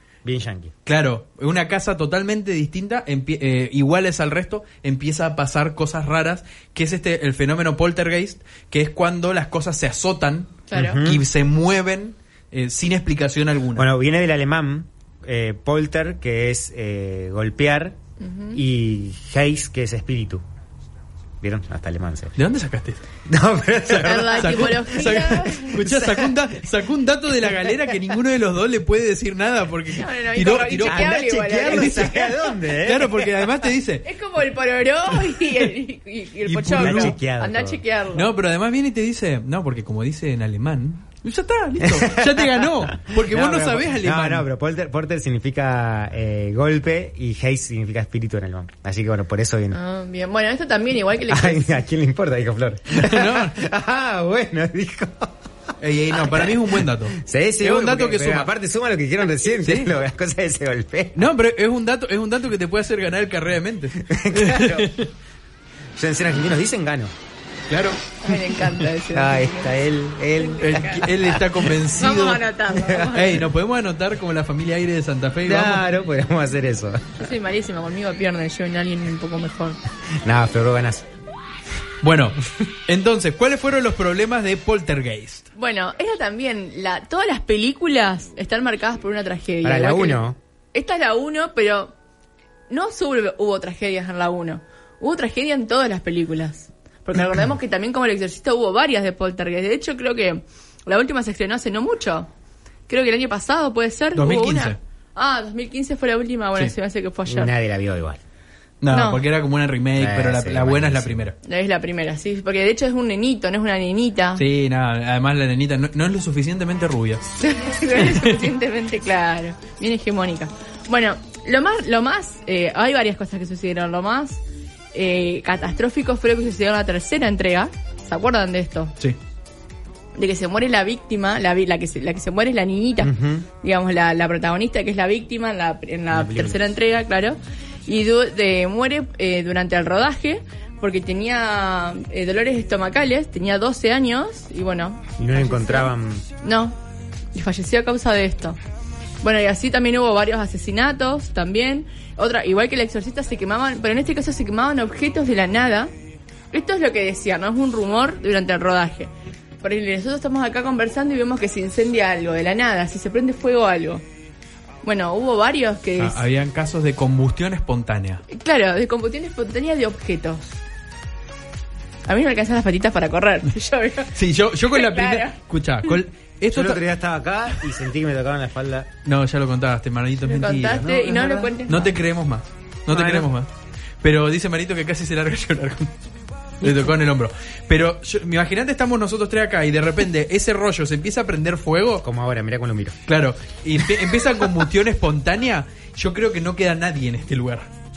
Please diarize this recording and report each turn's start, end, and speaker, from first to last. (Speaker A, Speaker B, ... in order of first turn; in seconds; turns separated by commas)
Speaker A: 0.2-0.7, Speaker B: 0.9-13.9, Speaker C: 10.7-11.0, Speaker A: 10.7-11.2, Speaker A: 13.8-18.0, Speaker C: 18.2-18.6, Speaker A: 18.5-20.4, Speaker A: 21.4-22.4, Speaker B: 22.4-23.0, Speaker A: 23.3-24.9, Speaker B: 23.9-31.1, Speaker C: 24.0-25.7, Speaker A: 25.8-26.4, Speaker C: 30.0-32.3, Speaker A: 30.9-33.5, Speaker B: 31.7-32.3, Speaker B: 32.8-34.1, Speaker C: 34.1-38.3, Speaker B: 36.5-37.2, Speaker A: 36.8-37.8, Speaker B: 38.1-44.5, Speaker A: 41.8-49.8, Speaker C: 49.7-51.8, Speaker A: 51.3-55.4, Speaker B: 53.0-53.6, Speaker B: 55.8-58.5, Speaker A: 56.1-56.6, Speaker A: 57.2-61.3, Speaker B: 59.6-59.9, Speaker B: 61.2-65.1, Speaker A: 64.1-64.9, Speaker A: 66.0-67.1, Speaker B: 67.7-68.0, Speaker C: 68.2-71.1, Speaker A: 69.1-71.4, Speaker B: 70.6-72.4, Speaker C: 72.0-73.4, Speaker A: 72.8-73.2, Speaker B: 73.1-75.9, Speaker A: 75.5-77.2, Speaker C: 77.2-79.8, Speaker A: 80.2-81.1, Speaker B: 82.0-85.5, Speaker C: 85.6-91.9, Speaker A: 89.6-90.4, Speaker C: 92.7-102.3, Speaker C: 102.9-107.5, Speaker B: 104.2-104.8, Speaker A: 107.3-108.2, Speaker B: 108.8-111.3, Speaker C: 108.9-109.2, Speaker A: 110.0-111.3, Speaker C: 111.4-114.4, Speaker B: 114.4-117.2, Speaker C: 117.4-124.4, Speaker B: 118.0-118.4, Speaker C: 124.9-128.9, Speaker C: 130.2-145.9, Speaker A: 133.0-133.5, Speaker A: 136.1-136.6, Speaker A: 145.2-146.3, Speaker C: 146.4-146.8, Speaker C: 147.3-148.6, Speaker C: 149.2-155.9, Speaker C: 156.5-159.1, Speaker C: 159.6-164.0, Speaker C: 164.8-166.2, Speaker B: 166.0-168.2, Speaker C: 168.3-170.5, Speaker C: 172.1-174.1, Speaker B: 174.2-176.8, Speaker C: 174.7-175.9, Speaker A: 176.5-178.9, Speaker B: 179.1-180.9, Speaker C: 180.2-181.9, Speaker A: 180.7-181.5, Speaker B: 181.7-183.5, Speaker A: 182.9-183.3, Speaker B: 184.0-185.9, Speaker B: 186.6-192.1, Speaker A: 186.6-186.9, Speaker A: 192.0-193.0, Speaker B: 193.1-197.7